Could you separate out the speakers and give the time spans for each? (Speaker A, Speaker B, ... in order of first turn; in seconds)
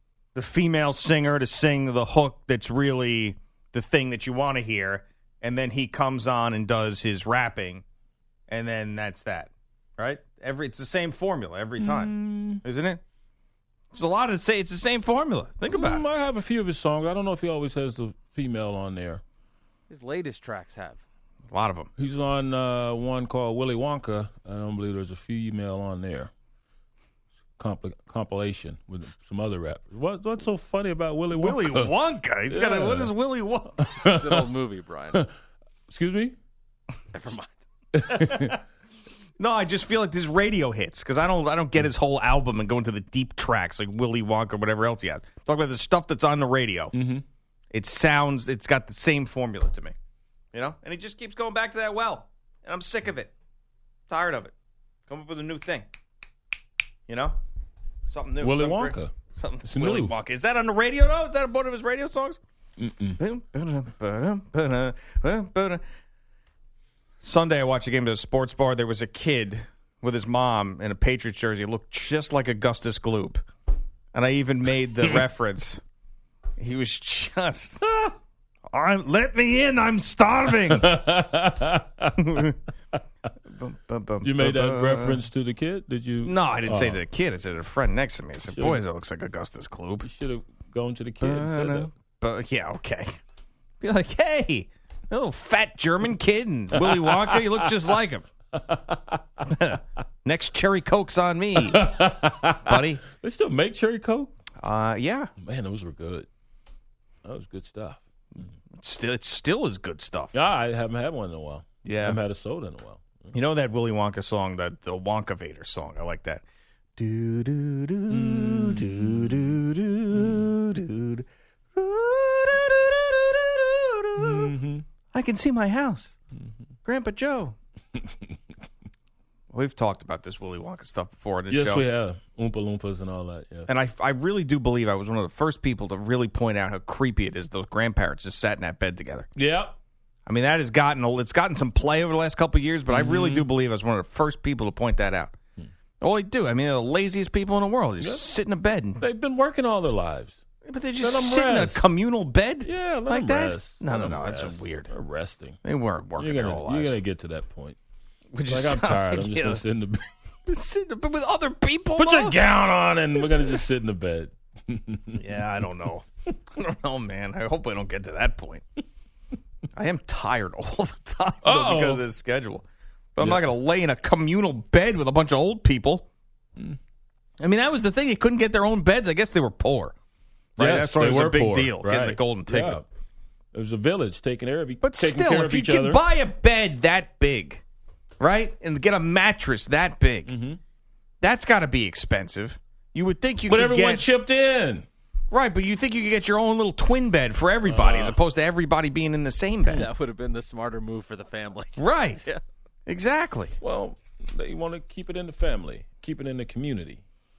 Speaker A: 0.3-7.8, 8.5-13.0, 13.9-16.1, 21.5-21.9, 31.3-33.9, 38.1-38.5, 39.4-46.9, 47.7-50.0, 50.5-53.3, 54.1-54.5, 55.1-55.9, 57.1-57.4, 58.1-62.4, 63.2-65.8, 67.2-73.5, 74.1-75.8, 76.6-78.1, 78.7-80.9, 82.2-82.6, 83.5-85.2, 86.2-90.1, 91.2-93.2, 93.8-98.2, 99.5-102.0, 102.6-103.0, 104.6-105.3, 108.7-110.3, 111.8-112.2, 113.3-116.4, 117.0-124.5, 125.1-126.2, 126.8-127.5, 129.5-131.8, 133.7-139.3, 140.3-145.3, 146.0-149.0, 150.7-154.9, 155.6-157.0, 158.3-159.6, 160.5-162.4, 165.2-168.6, 169.8-172.7, 173.2-176.1, 177.4-179.9, 180.6-182.8, 184.8-187.6, 188.2-190.3, 191.2-194.1, 195.3-199.9, 201.8-202.4, 202.9-203.6
Speaker B: 11.8-12.6, 15.7-19.2, 22.0-26.3, 27.6-31.9, 32.5-33.1, 33.8-34.5, 35.9-36.4, 38.0-38.6, 47.0-47.2, 58.4-59.1, 59.6-60.1, 62.8-63.2, 80.7-82.4, 84.2-87.0, 88.5-88.8, 90.0-91.9, 96.8-97.8, 101.6-104.3, 105.4-106.3, 107.2-108.0, 110.3-113.3, 118.1-119.5, 124.2-124.8, 131.5-133.7, 139.4-139.7, 142.9-143.5, 149.0-150.4, 151.0-151.8, 152.6-155.6, 156.2-157.8, 158.5-160.0, 162.0-165.2, 171.4-172.0, 173.2-173.5, 180.6-182.8, 183.5-186.0, 190.3-190.6, 193.5-194.8, 197.7-198.2, 203.6-207.0
Speaker C: 19.9-21.0, 34.1-35.2, 37.1-37.6, 199.7-201.8